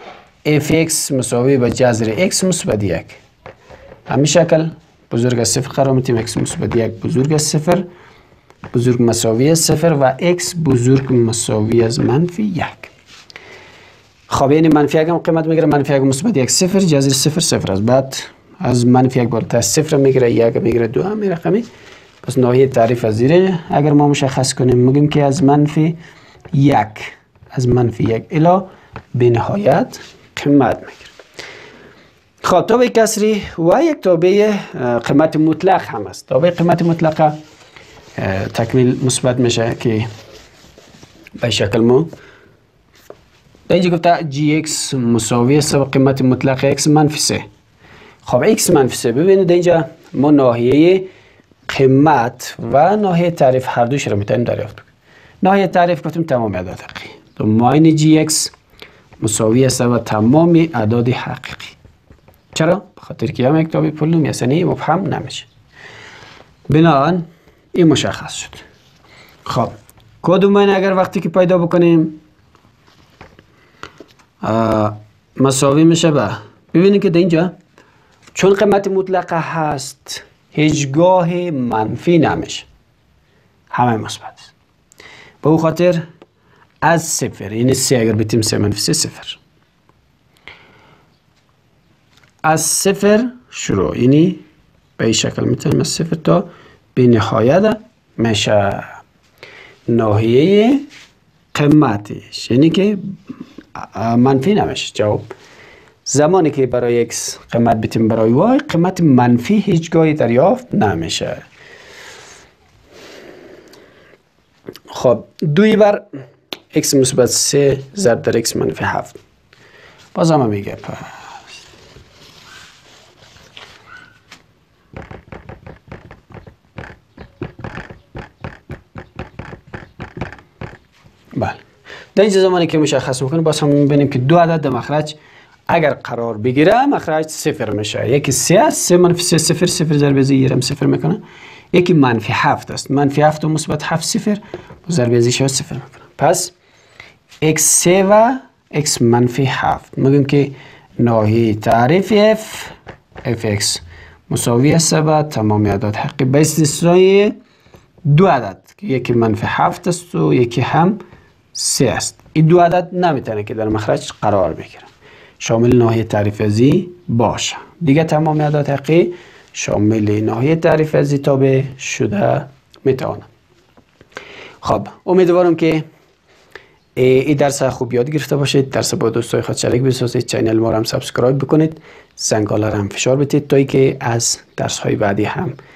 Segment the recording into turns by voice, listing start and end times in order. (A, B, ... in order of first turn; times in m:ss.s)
0:00.4-0:03.2 A
0:04.1-0:07.9 A
0:08.7-0:12.9 A
0:14.3-0:21.7 A
0:22.2-0:26.0 A
0:26.5-0:31.2 A
0:32.4-0:37.4 A
0:38.2-0:40.1 A
0:41.4-0:42.1 A
0:43.7-0:47.4 A
0:48.2-0:51.1 A
0:51.7-0:54.9 A
0:55.4-0:58.5 A
0:59.2-1:01.8 A
1:02.5-1:05.5 A
1:06.7-1:08.6 A
1:09.5-1:12.2 A
1:14.4-1:17.5 A
1:18.4-1:22.7 A
1:23.7-1:24.5 A
1:25.4-1:26.0 A
1:26.8-1:29.4 A
1:32.4-1:34.4 A
1:35.0-1:39.0 A
1:39.9-1:40.8 A
1:41.5-1:43.2 A
1:43.8-1:45.3 A
1:46.1-1:51.4 A
1:54.9-1:56.1 A
1:56.7-1:59.2 A
2:00.1-2:01.1 A
2:11.4-2:11.6 A
2:12.2-2:15.2 A
2:15.7-2:21.2 A
2:21.7-2:26.5 A
2:27.4-2:37.4 A
2:38.0-2:41.0 A
2:41.5-2:44.9 A
2:45.4-2:53.3 A
2:54.6-2:55.8 A
2:57.0-3:05.6 A